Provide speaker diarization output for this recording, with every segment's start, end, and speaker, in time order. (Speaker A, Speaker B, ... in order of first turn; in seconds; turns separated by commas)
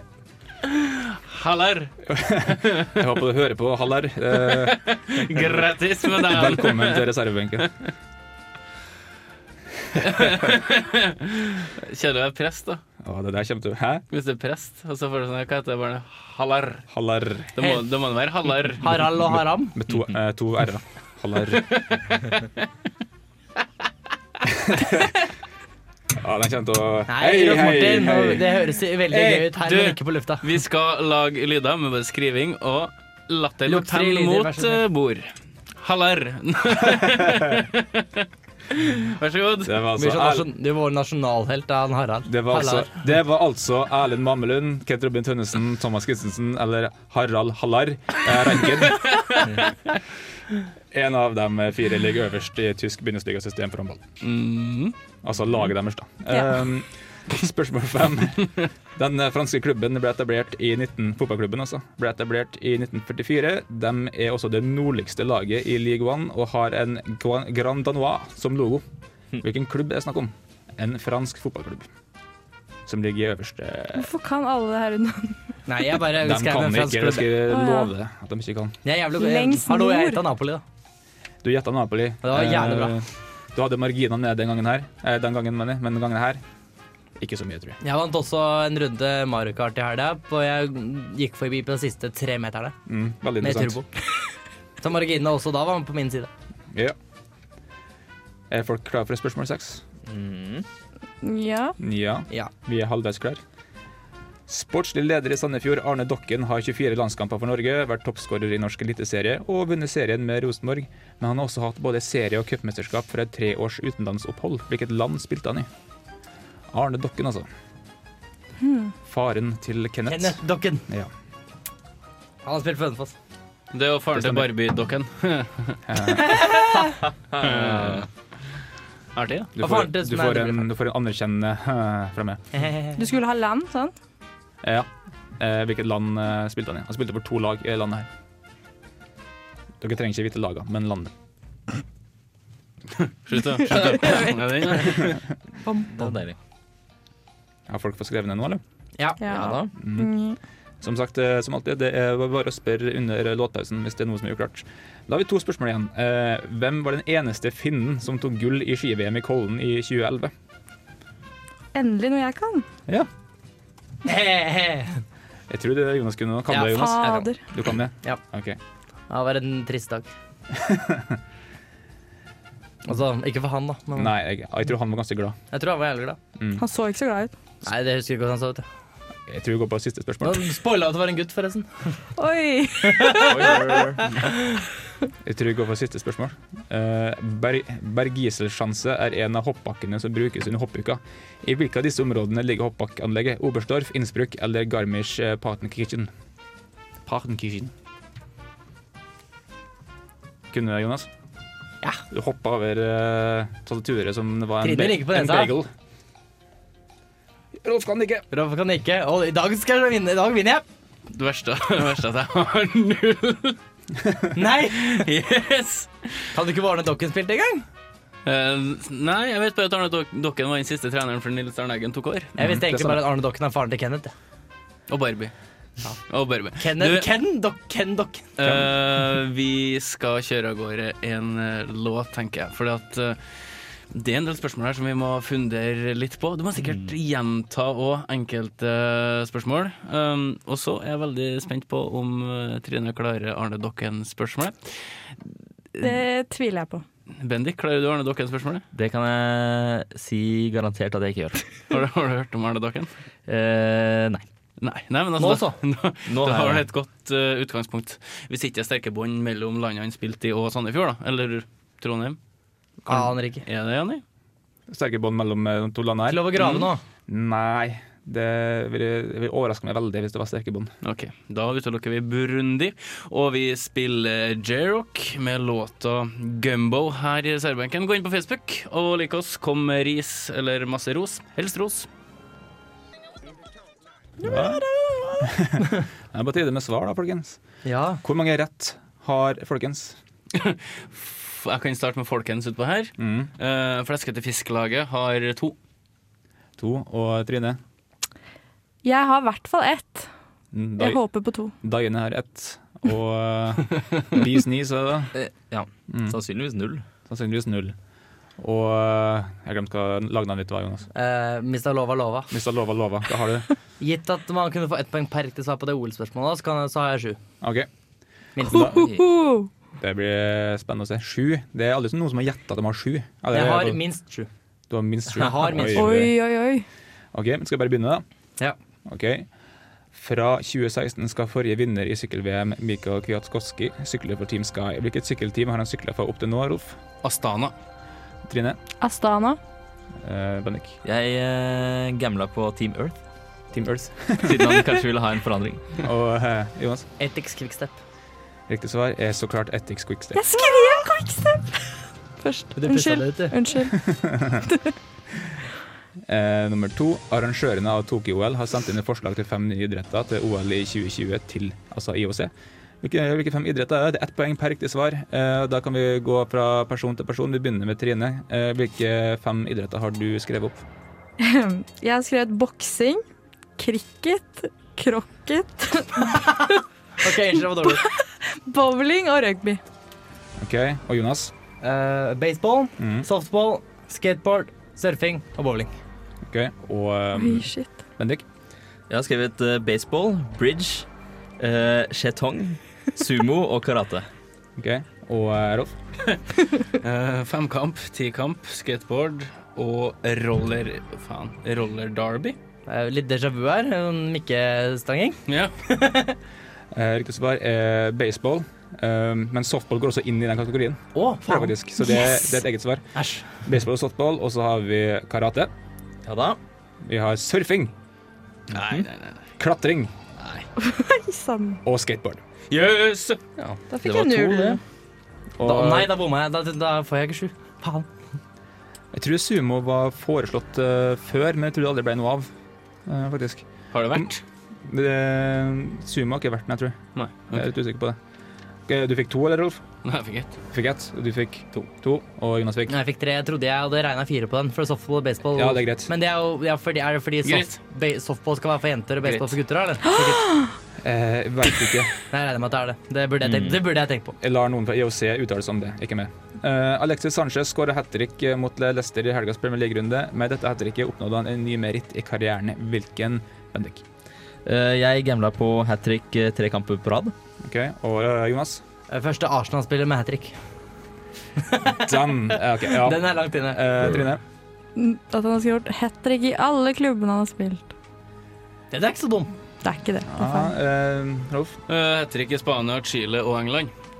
Speaker A: 0.7-1.9, Speaker B: 2.1-5.5, Speaker A: 4.4-7.6, Speaker B: 6.1-7.7, Speaker A: 10.0-12.8, Speaker B: 13.0-14.0, Speaker A: 14.1-16.8, Speaker B: 16.9-17.5, Speaker A: 17.6-18.8, Speaker C: 18.8-19.8, Speaker B: 19.2-21.8, Speaker A: 21.6-22.5, Speaker B: 24.5-25.1, Speaker B: 26.2-28.6, Speaker C: 27.1-30.4, Speaker A: 29.1-39.8, Speaker C: 33.7-34.8, Speaker B: 39.6-40.5, Speaker C: 40.0-43.0, Speaker B: 42.3-49.5, Speaker A: 49.1-49.3, Speaker B: 50.9-54.0, Speaker A: 54.2-55.0, Speaker B: 55.2-68.8, Speaker B: 69.4-71.9, Speaker B: 72.9-74.1, Speaker D: 74.0-75.5, Speaker C: 75.7-77.3, Speaker B: 76.1-78.8, Speaker D: 77.5-77.9, Speaker C: 78.8-80.6, Speaker D: 79.2-80.2, Speaker B: 81.4-86.4, Speaker C: 82.2-83.0, Speaker B: 87.2-87.8, Speaker C: 87.8-92.8, Speaker B: 92.9-93.8, Speaker C: 93.4-93.9, Speaker C: 94.8-96.3, Speaker B: 98.5-99.8, Speaker E: 100.0-100.7, Speaker D: 101.2-101.8, Speaker B: 101.8-103.4, Speaker B: 104.5-115.7, Speaker B: 116.7-117.5, Speaker D: 118.6-118.9, Speaker B: 119.1-121.1, Speaker C: 120.1-120.9, Speaker C: 122.5-123.2, Speaker A: 123.7-125.8, Speaker B: 124.2-124.5, Speaker B: 125.9-126.6, Speaker C: 126.4-126.8, Speaker E: 127.3-128.1, Speaker A: 127.4-128.1, Speaker A: 129.2-129.5, Speaker B: 129.6-132.4, Speaker C: 129.6-130.7, Speaker C: 132.5-133.0, Speaker D: 133.0-133.9, Speaker B: 134.6-138.1, Speaker B: 139.8-141.1, Speaker A: 143.1-145.2, Speaker D: 143.8-144.8, Speaker E: 145.9-146.4, Speaker B: 147.7-148.6, Speaker C: 149.0-149.7, Speaker D: 149.2-150.4, Speaker B: 149.8-150.1, Speaker B: 150.8-160.3, Speaker D: 161.7-162.7, Speaker C: 164.1-165.0, Speaker B: 165.5-168.6, Speaker C: 166.5-167.3, Speaker D: 166.7-167.4, Speaker C: 169.1-170.1, Speaker B: 170.6-171.2, Speaker C: 172.9-174.1, Speaker B: 173.9-175.4, Speaker C: 175.5-176.2, Speaker B: 176.4-176.6, Speaker D: 176.6-177.3, Speaker C: 177.6-178.6, Speaker B: 179.3-180.4, Speaker C: 180.2-182.0, Speaker D: 182.2-183.6, Speaker C: 182.8-183.3, Speaker E: 183.3-184.1, Speaker B: 185.2-196.1, Speaker B: 197.1-197.7, Speaker B: 200.5-201.1, Speaker B: 202.1-205.7, Speaker C: 204.6-205.5, Speaker B: 207.6-208.3, Speaker C: 208.3-210.6, Speaker A: 211.1-213.6, Speaker C: 214.3-215.1, Speaker A: 214.8-216.3, Speaker C: 216.3-217.7, Speaker A: 218.2-222.3, Speaker C: 222.4-224.1, Speaker B: 222.4-223.0, Speaker A: 224.9-225.3, Speaker A: 226.1-227.1, Speaker C: 226.6-228.3, Speaker A: 228.4-245.0, Speaker B: 228.4-228.7, Speaker D: 245.8-246.8, Speaker A: 247.2-248.7, Speaker E: 248.7-251.4, Speaker A: 251.7-252.9, Speaker E: 253.3-254.3, Speaker A: 254.6-262.2, Speaker C: 255.2-255.6, Speaker E: 256.1-256.7, Speaker C: 262.9-263.4, Speaker A: 263.4-264.0, Speaker B: 264.7-266.5, Speaker C: 266.1-266.8, Speaker A: 266.4-266.7, Speaker B: 267.1-270.7, Speaker A: 270.8-281.9, Speaker B: 284.2-284.6, Speaker D: 284.2-285.2, Speaker B: 285.2-287.4, Speaker C: 287.6-288.0, Speaker B: 288.0-290.0, Speaker A: 290.3-295.6, Speaker B: 293.0-293.3, Speaker B: 296.6-297.6, Speaker D: 298.8-300.1, Speaker B: 300.5-301.1, Speaker D: 300.8-301.6, Speaker B: 301.6-305.1, Speaker E: 305.1-306.8, Speaker B: 305.9-306.2, Speaker B: 307.1-307.8, Speaker B: 308.4-310.9, Speaker C: 310.9-312.3, Speaker B: 312.3-313.5, Speaker C: 313.8-317.2, Speaker B: 317.4-317.7, Speaker C: 318.4-318.6, Speaker B: 318.4-319.0, Speaker D: 318.5-319.5, Speaker E: 318.8-319.0, Speaker B: 319.8-323.8, Speaker C: 323.3-324.3, Speaker B: 324.7-326.1, Speaker C: 325.1-325.9, Speaker D: 325.7-326.7, Speaker B: 327.1-328.0, Speaker B: 328.9-329.3, Speaker B: 329.9-336.8, Speaker A: 337.0-337.5, Speaker B: 338.3-338.6, Speaker D: 338.8-339.4, Speaker B: 340.0-340.8, Speaker E: 340.8-343.0, Speaker B: 343.5-344.6, Speaker E: 344.2-345.7, Speaker B: 345.8-346.9, Speaker C: 347.0-347.8, Speaker B: 348.5-350.2, Speaker D: 350.1-353.8, Speaker C: 352.6-353.4, Speaker B: 353.8-354.4, Speaker B: 356.1-362.3, Speaker B: 362.8-370.6, Speaker D: 371.2-373.0, Speaker D: 373.6-376.6, Speaker C: 377.0-377.9, Speaker D: 377.6-379.6, Speaker B: 380.4-381.3, Speaker C: 381.6-385.7, Speaker B: 382.8-383.1, Speaker B: 386.3-388.2, Speaker D: 387.1-387.8, Speaker E: 388.9-390.9, Speaker E: 391.4-394.1, Speaker B: 394.6-395.8, Speaker A: 396.7-402.4, Speaker C: 402.7-406.2, Speaker A: 405.3-405.5, Speaker B: 406.7-415.5, Speaker C: 410.9-411.5, Speaker C: 412.9-413.3, Speaker E: 416.0-416.4, Speaker B: 416.8-417.7, Speaker A: 418.5-419.2, Speaker E: 418.5-418.9, Speaker B: 419.4-419.9, Speaker A: 420.2-420.4, Speaker D: 420.6-421.6, Speaker B: 421.6-422.2, Speaker A: 422.5-423.2, Speaker D: 423.7-424.6, Speaker E: 423.8-424.6, Speaker B: 425.4-425.9, Speaker C: 425.4-427.9, Speaker B: 428.9-432.3, Speaker B: 432.9-434.1, Speaker A: 433.7-434.2, Speaker B: 434.7-436.8, Speaker A: 436.9-437.5, Speaker B: 437.3-438.0, Speaker B: 438.7-439.6, Speaker A: 439.8-440.4, Speaker B: 440.5-442.8, Speaker C: 442.7-450.3, Speaker B: 445.3-445.9, Speaker A: 447.2-447.6, Speaker A: 449.0-449.4, Speaker B: 450.8-451.9, Speaker C: 452.1-454.1, Speaker E: 453.2-453.6, Speaker B: 454.2-463.8, Speaker E: 464.4-467.1, Speaker B: 467.4-468.6, Speaker C: 468.9-470.4, Speaker C: 471.5-471.8, Speaker B: 471.7-474.2, Speaker C: 472.7-473.6, Speaker D: 474.8-477.7, Speaker C: 478.7-479.3, Speaker D: 479.6-480.5, Speaker B: 480.1-481.6, Speaker A: 481.7-483.7